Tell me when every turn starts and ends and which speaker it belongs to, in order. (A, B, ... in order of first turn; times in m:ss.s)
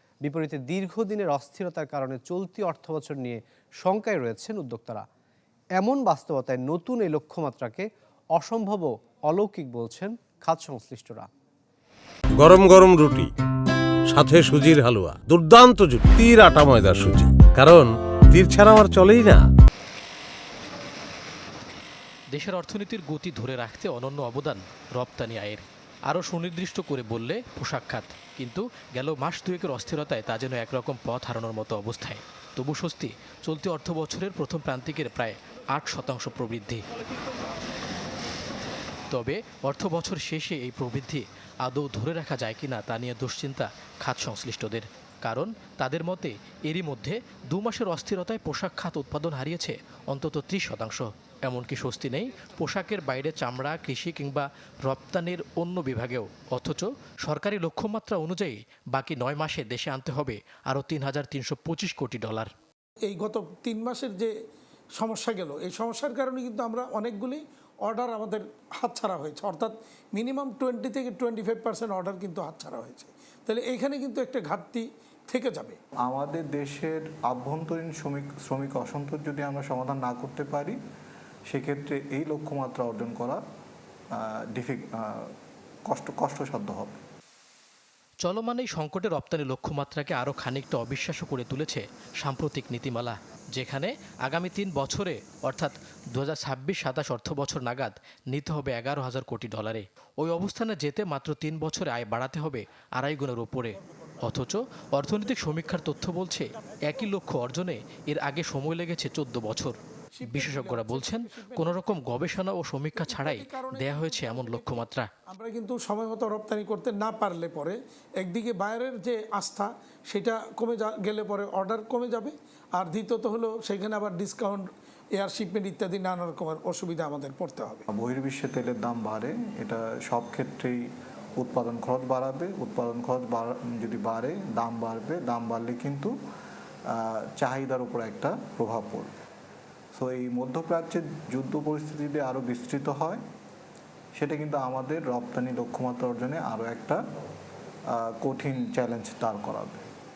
0:00.2-0:05.0 A
0:05.8-0:11.3 A
0:12.4-0:13.3 B
0:14.1-0:19.4 B
0:22.3-0:36.8 C
0:39.1-1:02.5 C
1:03.1-1:04.3 D
1:05.0-1:15.8 D
1:16.0-1:20.8 E
1:21.5-1:23.4 E
1:24.1-1:25.3 E
1:25.8-1:27.0 E
1:28.2-1:55.1 C
1:50.1-1:51.9 D
1:52.9-2:07.8 D
2:07.9-2:10.8 E
2:11.4-2:16.1 E
2:16.9-2:19.1 E
2:19.9-2:23.2 E
2:24.2-2:27.0 E
2:27.9-2:29.8 E